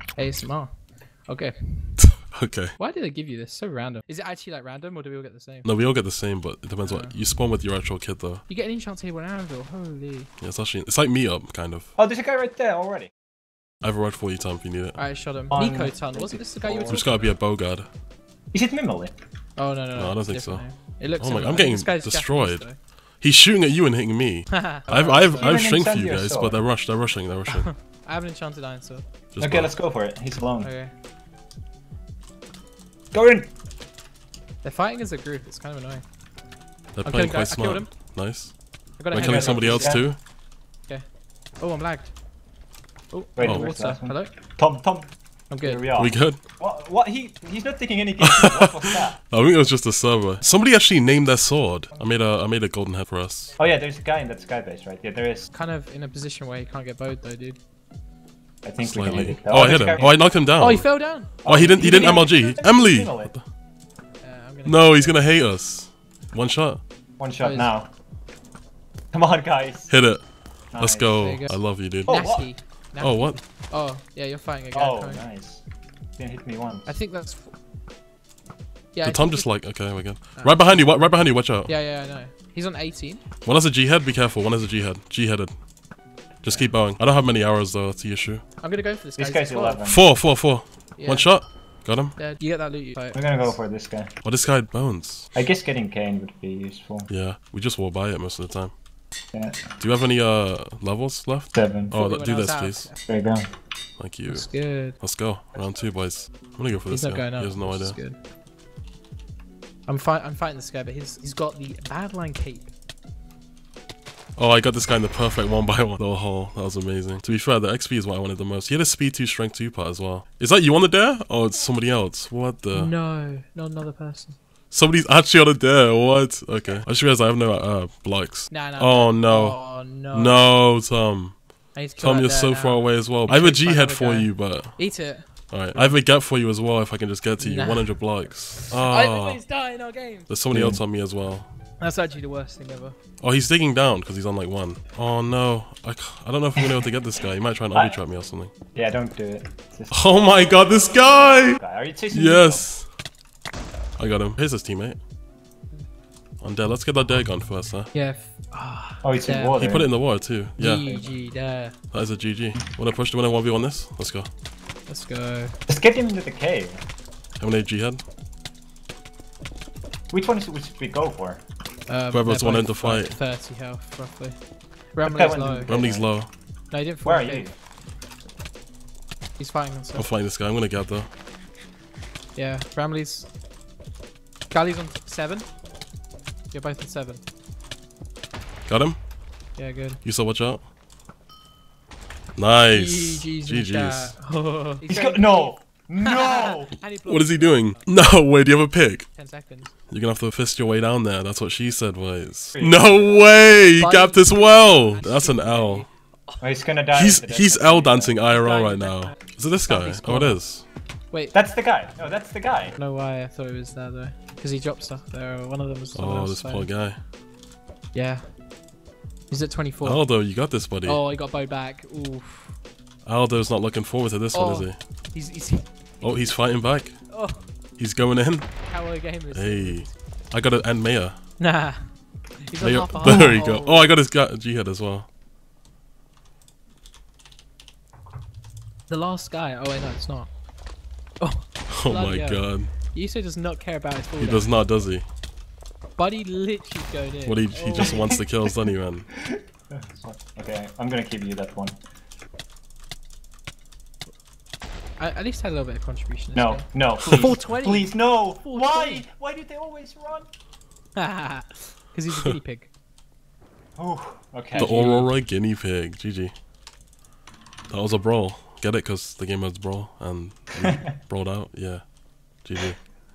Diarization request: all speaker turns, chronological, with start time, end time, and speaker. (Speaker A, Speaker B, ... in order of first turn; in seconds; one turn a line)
Speaker A: 0.1-2.2
Speaker B: 2.2-2.7
Speaker A: 2.8-5.7
Speaker B: 5.6-8.4
Speaker A: 6.8-7.2
Speaker A: 8.5-10.3
Speaker B: 10.4-11.9
Speaker C: 12.0-13.1
Speaker B: 13.8-15.0
Speaker A: 15.0-17.3
Speaker C: 15.5-17.2
Speaker B: 16.9-17.9
Speaker C: 18.5-19.1
Speaker A: 19.6-22.8
Speaker B: 19.9-20.6
Speaker B: 21.2-22.7
Speaker B: 23.2-27.7
Speaker A: 24.5-25.6
Speaker C: 25.4-26.6
Speaker A: 27.5-29.0
Speaker B: 29.3-29.7
Speaker C: 29.4-30.7
Speaker A: 30.6-30.9
Speaker C: 33.1-33.5
Speaker A: 34.6-36.0
Speaker B: 37.0-38.5
Speaker A: 37.0-37.9
Speaker A: 39.0-40.1
Speaker B: 39.1-40.2
Speaker C: 39.1-40.1
Speaker A: 41.6-42.1
Speaker A: 43.1-44.3
Speaker C: 43.4-49.2
Speaker A: 45.5-46.0
Speaker B: 46.0-46.4
Speaker B: 48.2-53.5
Speaker C: 53.6-55.5
Speaker A: 55.5-57.6
Speaker C: 58.6-60.2
Speaker B: 58.8-63.4
Speaker A: 60.6-61.4
Speaker C: 61.4-63.3
Speaker A: 64.2-65.2
Speaker B: 64.6-66.8
Speaker C: 67.2-67.9
Speaker A: 67.4-67.7
Speaker C: 69.1-69.9
Speaker B: 69.9-73.4
Speaker C: 70.7-71.2
Speaker A: 71.2-75.2
Speaker C: 72.0-72.5
Speaker C: 74.7-75.6
Speaker C: 76.2-76.9
Speaker A: 76.9-77.5
Speaker A: 78.9-79.5
Speaker B: 79.0-81.7
Speaker A: 80.3-81.1
Speaker A: 81.6-83.2
Speaker B: 83.4-85.6
Speaker B: 86.4-88.4
Speaker C: 86.5-86.7
Speaker A: 88.6-89.8
Speaker C: 89.2-90.1
Speaker B: 89.8-92.2
Speaker A: 91.0-91.4
Speaker A: 92.1-93.5
Speaker C: 93.1-94.1
Speaker B: 94.2-95.3
Speaker C: 95.3-97.1
Speaker B: 97.1-98.7
Speaker C: 99.3-99.7
Speaker B: 99.8-102.9
Speaker C: 101.5-101.9
Speaker A: 101.9-103.0
Speaker C: 103.0-103.5
Speaker B: 104.0-108.0
Speaker A: 104.3-105.0
Speaker A: 106.9-108.2
Speaker A: 109.9-112.7
Speaker B: 114.4-122.9
Speaker A: 122.7-124.4
Speaker B: 124.7-139.4
Speaker A: 128.5-130.5
Speaker A: 131.7-136.0
Speaker A: 137.4-140.3
Speaker B: 140.3-141.5
Speaker C: 140.5-140.8
Speaker A: 141.8-142.9
Speaker B: 143.2-148.5
Speaker C: 147.7-148.0
Speaker C: 148.7-150.0
Speaker B: 149.9-151.6
Speaker C: 151.5-152.7
Speaker B: 152.1-152.9
Speaker B: 154.0-155.0
Speaker B: 156.4-157.9
Speaker A: 157.9-159.6
Speaker C: 159.0-159.9
Speaker B: 159.6-160.8
Speaker A: 160.6-161.7
Speaker C: 160.8-161.1
Speaker B: 161.9-164.3
Speaker A: 164.9-165.5
Speaker C: 165.7-166.8
Speaker B: 167.4-168.0
Speaker C: 170.1-171.4
Speaker A: 171.9-174.4
Speaker B: 172.1-173.2
Speaker A: 174.9-175.7
Speaker C: 175.0-176.2
Speaker B: 175.7-176.3
Speaker A: 176.7-177.5
Speaker C: 177.0-177.5
Speaker A: 179.4-180.1
Speaker B: 179.9-181.1
Speaker A: 182.3-183.3
Speaker A: 184.5-185.5
Speaker A: 186.5-187.2
Speaker B: 188.7-189.0
Speaker A: 189.6-190.0
Speaker B: 190.0-190.6
Speaker B: 192.3-194.2
Speaker A: 192.7-197.9
Speaker C: 194.9-196.8
Speaker B: 197.1-199.1
Speaker A: 199.1-199.7
Speaker B: 199.9-205.8
Speaker C: 202.5-203.3
Speaker A: 203.6-206.3
Speaker C: 206.4-208.2
Speaker B: 206.9-210.6
Speaker A: 208.3-211.3
Speaker C: 211.3-212.8
Speaker A: 212.8-216.7
Speaker B: 215.9-217.0
Speaker A: 217.9-218.3
Speaker A: 219.3-220.1
Speaker B: 219.8-221.0
Speaker A: 220.8-222.6
Speaker B: 223.0-224.8
Speaker A: 224.3-225.7
Speaker B: 226.0-227.0
Speaker A: 227.1-227.4
Speaker B: 227.8-228.7
Speaker A: 228.6-229.9
Speaker B: 229.3-231.2
Speaker A: 231.4-233.9
Speaker B: 232.6-235.1
Speaker A: 238.9-240.3
Speaker A: 241.2-244.6
Speaker B: 241.8-242.7
Speaker B: 244.2-245.1
Speaker A: 246.0-248.1
Speaker B: 247.2-249.1
Speaker C: 247.8-248.5
Speaker C: 249.1-251.8
Speaker A: 255.0-259.0
Speaker C: 256.3-260.2
Speaker A: 260.9-262.7
Speaker C: 263.8-264.8
Speaker A: 264.5-265.1
Speaker B: 264.5-266.3
Speaker B: 267.7-272.9